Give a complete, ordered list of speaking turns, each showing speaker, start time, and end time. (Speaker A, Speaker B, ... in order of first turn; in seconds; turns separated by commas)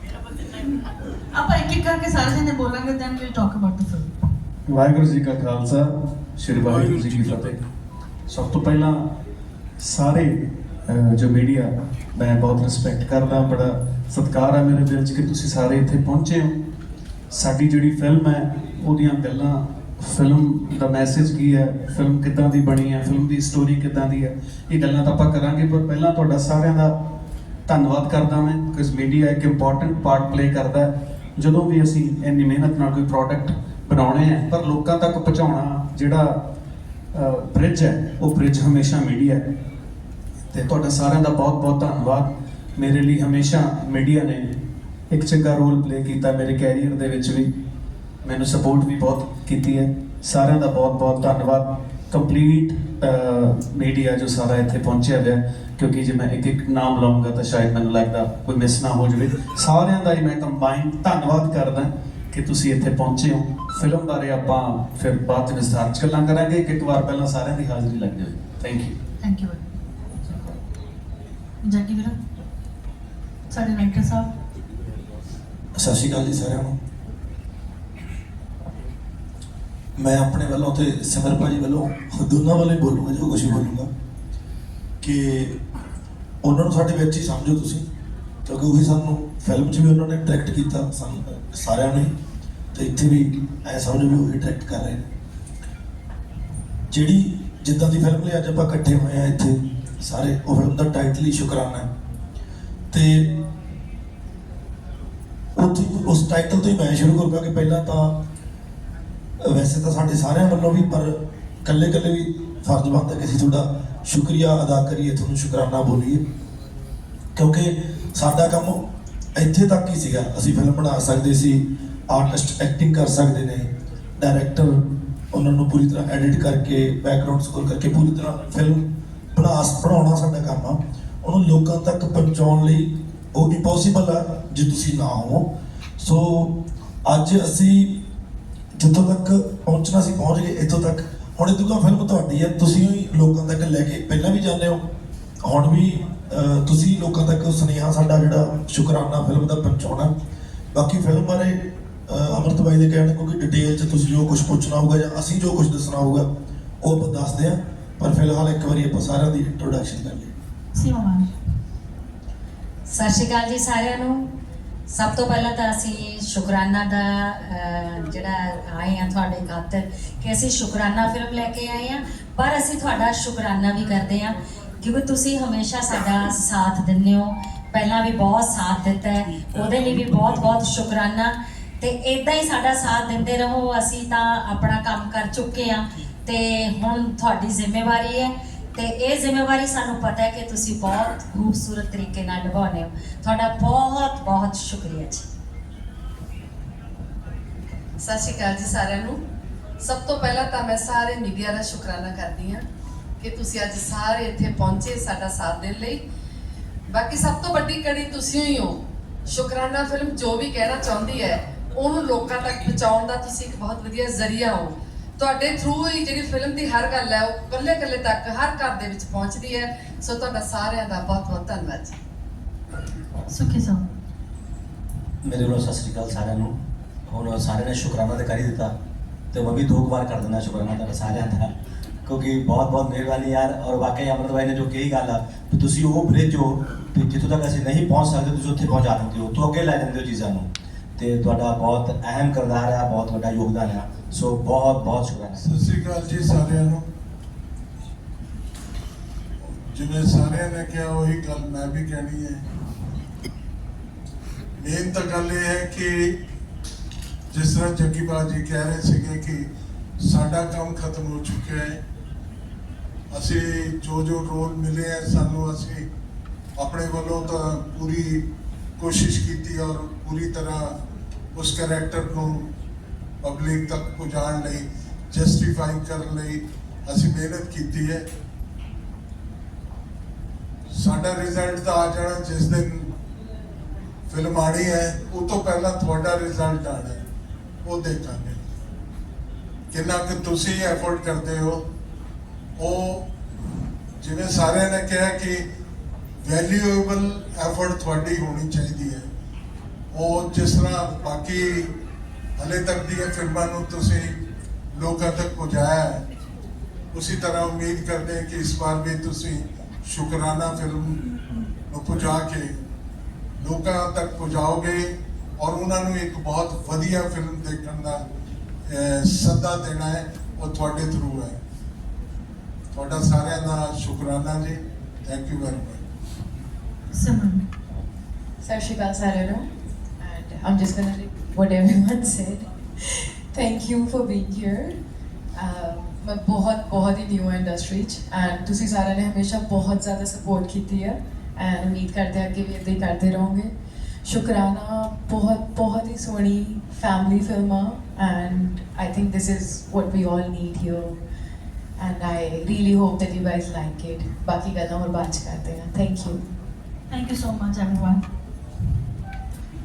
Speaker A: 1.3-4.1, Speaker B: 4.7-7.6, Speaker B: 8.3-9.0, Speaker B: 9.8-10.3, Speaker B: 10.9-16.6, Speaker B: 17.3-26.9, Speaker B: 27.7-36.3, Speaker B: 37.1-39.4, Speaker B: 40.5-44.5, Speaker B: 45.1-47.5, Speaker B: 48.2-69.0, Speaker A: 69.2-69.8, Speaker A: 71.6-72.2, Speaker A: 73.5-74.3, Speaker C: 75.8-76.8, Speaker C: 80.0-83.9, Speaker C: 85.0-85.6, Speaker C: 86.4-87.8, Speaker C: 88.5-92.1, Speaker C: 92.7-95.1, Speaker C: 96.9-101.9, Speaker C: 102.9-103.4, Speaker C: 105.5-108.2, Speaker C: 109.4-116.2, Speaker C: 117.3-118.8, Speaker C: 119.3-128.8, Speaker C: 129.3-138.0, Speaker C: 138.7-144.8, Speaker C: 145.4-150.1, Speaker C: 150.7-156.3, Speaker C: 156.8-160.3, Speaker A: 160.7-161.3, Speaker D: 162.9-164.3, Speaker D: 164.9-195.2, Speaker E: 198.0-199.2, Speaker E: 199.8-202.6, Speaker E: 203.2-206.0, Speaker E: 206.9-208.7, Speaker E: 209.3-221.9, Speaker A: 223.3-223.8, Speaker F: 225.3-226.5, Speaker F: 227.1-228.7, Speaker F: 229.3-231.5, Speaker F: 232.1-240.4, Speaker F: 241.0-245.4, Speaker G: 245.4-246.8, Speaker G: 249.4-252.4, Speaker G: 254.6-256.1, Speaker G: 257.3-259.4, Speaker G: 260.0-261.8, Speaker G: 263.1-265.8, Speaker G: 266.6-268.2, Speaker G: 268.8-270.7, Speaker G: 271.3-272.4, Speaker G: 273.2-278.0, Speaker G: 280.7-282.9, Speaker G: 284.1-287.0, Speaker G: 287.6-288.4, Speaker G: 289.7-291.6, Speaker G: 292.6-293.1, Speaker G: 294.0-295.4, Speaker G: 296.2-299.1, Speaker G: 299.9-301.7, Speaker G: 302.4-304.1, Speaker G: 304.7-306.0, Speaker G: 306.9-311.0, Speaker G: 311.7-312.5, Speaker G: 313.4-314.9, Speaker G: 315.4-318.0, Speaker G: 318.7-321.4, Speaker G: 322.7-325.8, Speaker A: 326.9-327.4, Speaker H: 328.4-329.4, Speaker H: 330.0-332.5, Speaker H: 333.3-334.8, Speaker H: 335.3-343.5, Speaker H: 344.0-351.0, Speaker H: 351.8-356.2, Speaker A: 356.9-358.0